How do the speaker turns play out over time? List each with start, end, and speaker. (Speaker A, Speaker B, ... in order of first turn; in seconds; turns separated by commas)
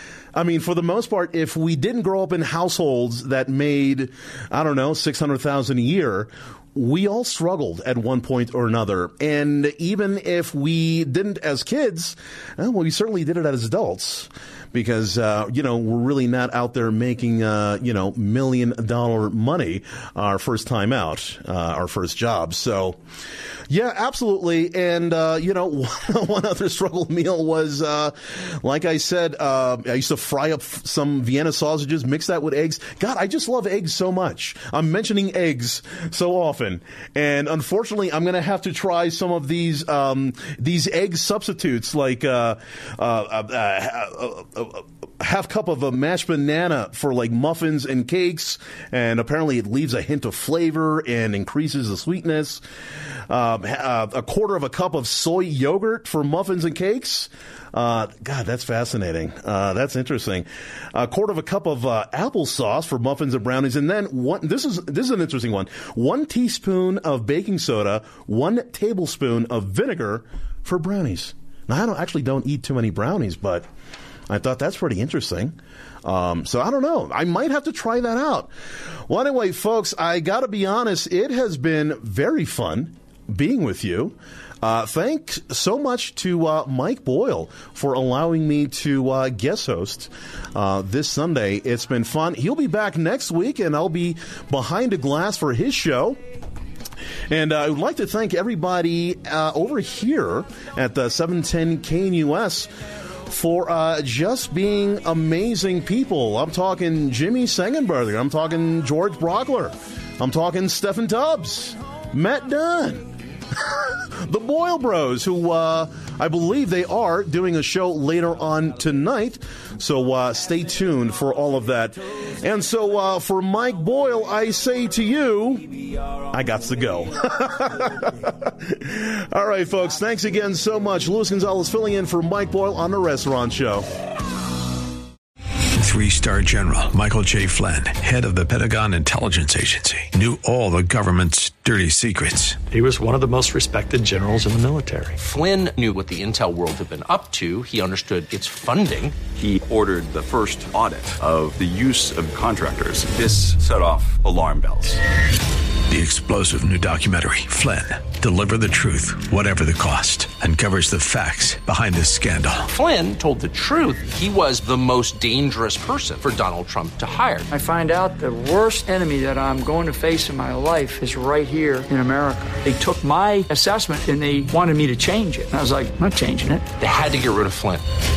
Speaker A: 0.3-23.0, Speaker A: 23.7-52.6, Speaker A: 53.3-73.7, Speaker A: 74.3-78.5, Speaker A: 79.1-96.2, Speaker A: 97.3-102.7, Speaker A: 103.3-125.7, Speaker A: 126.3-133.9, Speaker B: 135.8-142.6, Speaker C: 142.7-145.1, Speaker D: 145.2-149.2, Speaker E: 149.3-155.0, Speaker B: 155.9-162.7, Speaker D: 162.7-167.5, Speaker F: 167.5-176.6, Speaker D: 176.8-177.8